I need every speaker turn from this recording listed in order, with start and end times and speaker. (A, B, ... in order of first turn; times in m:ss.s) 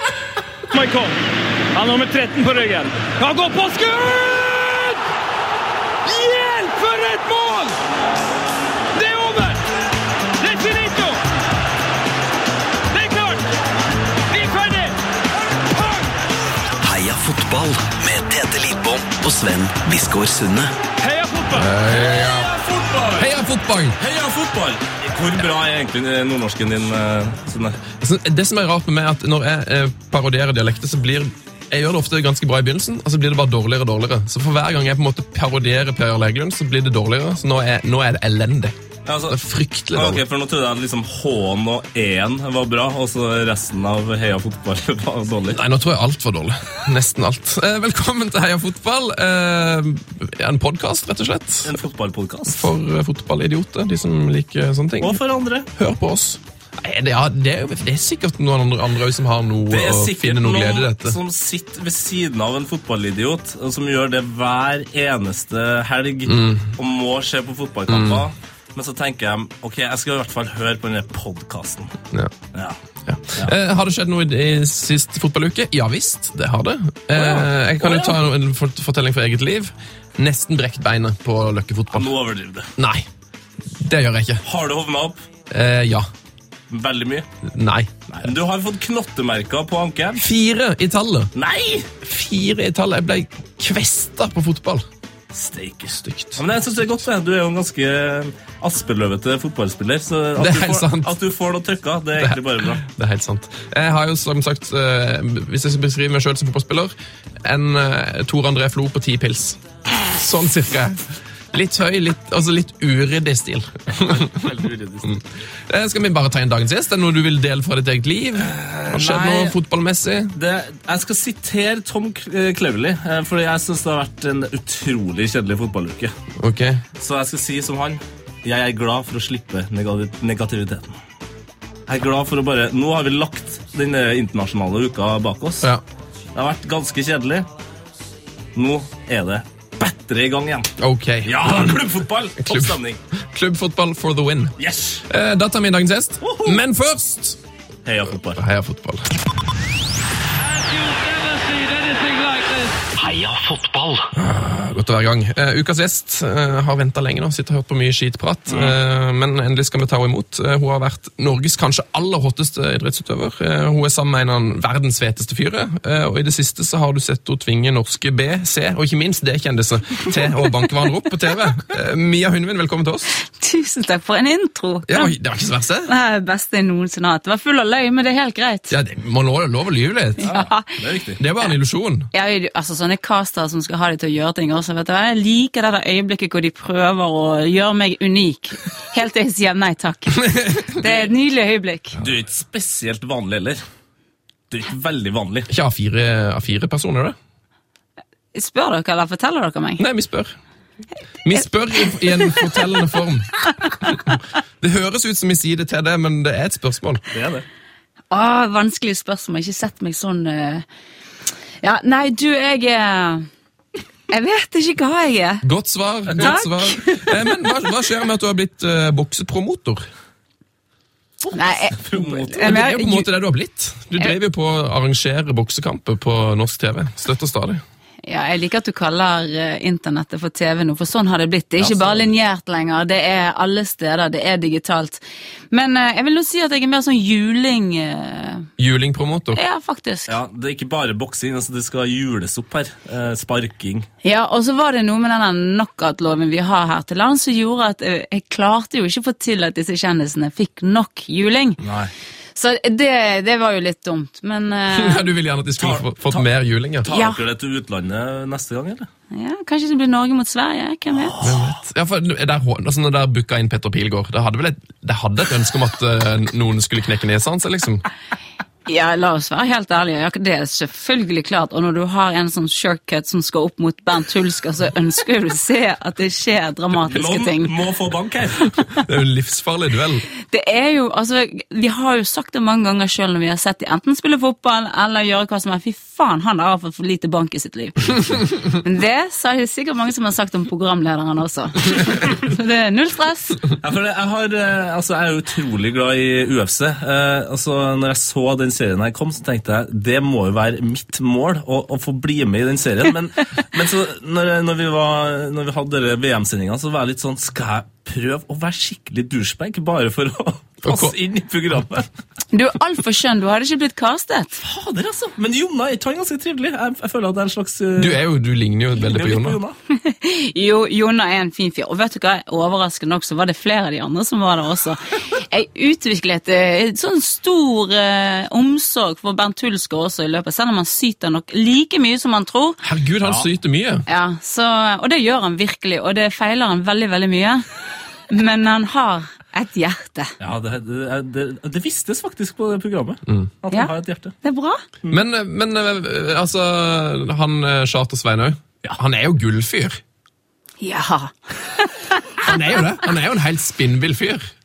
0:00.7-0:01.2 A
0:01.7-0:05.0 A
0:06.0-0:07.8 A
0:08.9-0:09.6 A
0:10.4-0:11.2 A
0:12.9-0:13.5 A
0:14.3-0:15.0 A
0:15.5-0:16.1 A
0:16.8-0:20.7 B
0:21.0-0:22.3 A
0:21.5-0:22.5 C
0:22.4-0:23.3 D
0:23.2-0:24.0 C
0:24.0-0:27.8 D
0:28.0-0:38.8 C
0:39.1-0:39.4 D
0:39.3-0:40.2 C
0:39.9-0:45.6 D
0:45.5-0:51.7 C
0:51.6-0:52.7 D
0:52.5-0:55.2 C
0:55.0-0:55.7 D
0:55.7-1:01.2 C
0:59.7-1:12.0 D
1:06.3-1:06.7 C
1:07.9-1:08.2 C
1:13.0-1:22.1 C
1:17.1-1:18.2 D
1:21.9-1:22.7 D
1:22.8-1:23.1 C
1:23.7-1:24.4 C
1:24.4-1:25.2 D
1:25.5-1:26.1 C
1:26.7-1:27.3 D
1:27.4-1:28.3 C
1:28.1-1:30.2 D
1:30.2-1:31.3 C
1:31.4-1:31.9 D
1:32.0-1:34.9 C
1:35.3-1:42.8 D
1:36.0-1:36.4 C
1:40.4-1:41.2 C
1:42.2-2:00.3 C
1:54.0-1:55.1 D
1:58.4-1:59.6 D
2:00.4-2:06.1 D
2:06.4-2:06.8 C
2:07.0-2:10.9 D
2:11.9-2:15.7 D
2:16.4-2:17.5 D
2:18.6-2:23.0 D
2:20.8-2:24.6 C
2:24.6-2:25.0 D
2:25.1-2:27.4 C
2:26.2-2:26.6 D
2:27.8-2:28.4 D
2:28.3-2:29.1 C
2:31.3-2:32.6 A
2:33.0-2:34.1 B
2:34.1-2:53.1 C
2:38.5-2:38.8 D
2:53.3-2:55.2 E
2:54.9-2:55.9 C
2:55.9-2:58.8 E
2:58.7-3:00.4 C
3:00.2-3:00.8 E
3:00.2-3:01.2 D
3:01.2-3:02.1 C
3:02.1-3:12.0 E
3:10.2-3:10.8 C
3:12.0-3:13.6 D
3:14.5-3:15.5 D
3:15.5-3:17.2 C
3:18.3-3:19.8 E
3:19.8-3:20.4 C
3:21.2-3:27.0 C
3:27.1-3:27.4 D
3:28.1-3:30.6 E
3:31.6-3:33.3 E
3:34.1-3:35.4 E
3:35.4-3:39.9 C
3:36.2-3:37.1 E
3:41.2-3:42.6 D
3:41.3-3:43.1 E
3:42.4-3:47.6 C
3:48.0-3:58.5 E
3:51.6-3:52.1 D
3:58.6-3:59.4 C
3:59.3-4:00.2 E
4:00.1-4:03.9 D
4:04.0-4:11.6 E
4:11.6-4:11.9 D
4:12.4-4:15.1 E
4:14.7-4:16.9 C
4:15.6-4:16.3 D
4:16.8-4:18.9 D
4:16.9-4:17.2 E
4:19.1-4:21.3 E
4:20.9-4:21.4 D
4:21.2-4:27.8 C
4:28.7-4:37.5 E
4:36.9-4:38.5 D
4:38.8-4:40.1 C
4:40.3-4:53.4 E
4:53.6-5:11.9 D
5:10.6-5:11.0 C
5:12.3-5:14.4 E
5:14.4-5:18.0 D
5:17.8-5:19.4 C
5:18.8-5:19.6 D
5:19.7-5:32.6 E
5:32.6-5:33.9 C
5:33.0-5:33.3 D
5:33.9-5:37.5 E
5:38.1-5:40.1 E
5:40.2-5:44.2 D
5:43.5-5:44.6 E
5:44.9-5:49.8 C
5:50.6-5:52.1 E
5:52.2-5:54.3 C